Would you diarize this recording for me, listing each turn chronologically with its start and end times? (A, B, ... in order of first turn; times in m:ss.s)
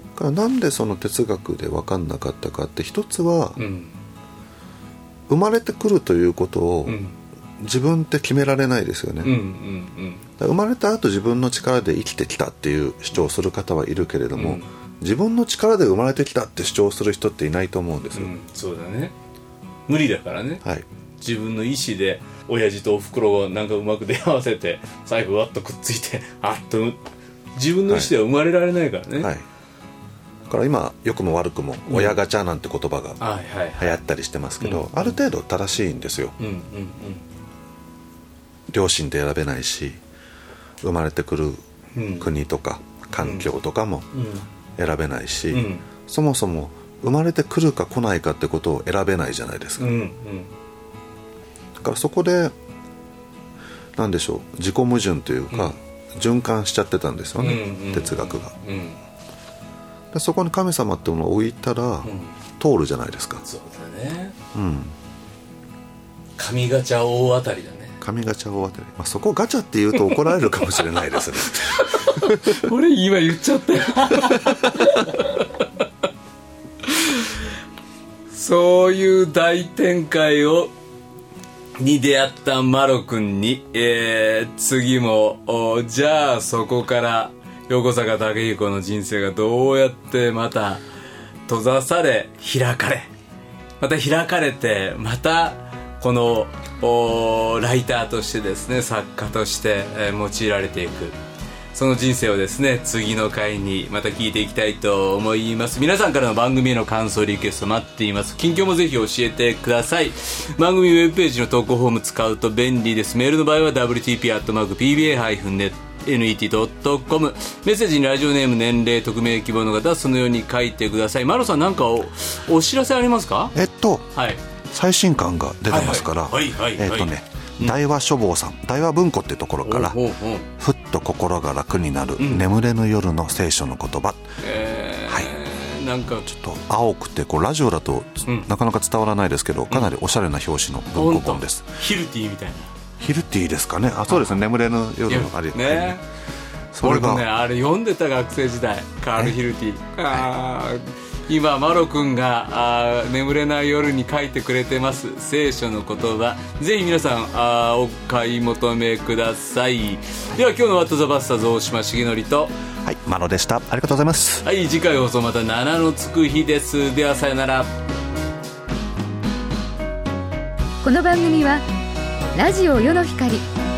0:00.2-0:03.6 A
0:03.6-0:04.0 B
0:05.3-0:07.0 A
0:06.8-0:07.2 B
0:07.6-0:09.4 A
0:09.2-0:10.3 B
0:10.4-0:18.3 A
0:14.3-0:14.6 B
0:18.1-0:19.1 B
0:19.9-0:20.6 B
0:21.2-0:29.3 B
0:27.9-0:28.1 A
0:29.2-0:29.4 A
0:30.5-0:33.2 A
0:31.9-0:32.2 B
0:33.2-0:34.0 B
0:33.8-0:36.3 A
0:34.6-0:35.1 B
0:36.4-0:37.2 B
0:38.7-0:40.0 A
0:40.8-0:41.6 A
0:41.9-0:42.3 B
0:42.2-0:44.1 A
0:43.2-0:43.5 B
0:44.1-0:44.4 B
0:44.8-0:50.0 A
0:45.5-0:45.8 B
0:49.8-0:50.5 B
0:51.8-0:52.5 A
0:54.0-0:58.5 A
0:57.4-0:59.0 B
1:00.1-1:03.4 A
1:02.0-1:02.4 B
1:03.4-1:04.3 B
1:04.5-1:04.9 A
1:06.4-1:08.0 B
1:08.0-1:12.7 A
1:10.9-1:15.6 B
1:14.3-1:15.0 A
1:16.8-1:17.3 B
1:18.3-1:20.7 B
1:21.8-1:30.8 B
1:31.5-1:33.1 B
1:33.8-1:41.2 B
1:41.7-2:03.5 B
2:03.5-2:04.1 A
2:04.1-2:04.4 B
2:04.7-2:10.0 A
2:05.7-2:07.8 B
2:09.6-2:10.5 B
2:10.6-2:14.2 A
2:12.2-2:12.5 B
2:14.4-2:16.3 B
2:16.2-2:21.8 A
2:20.9-2:22.7 B
2:23.0-2:26.0 A
2:24.1-2:24.4 B
2:25.1-2:26.0 B
2:26.7-2:27.2 A
2:26.8-2:42.5 B
2:42.8-2:44.4 A
2:44.4-2:47.7 B
2:50.8-2:51.6 C
2:52.3-2:53.4 C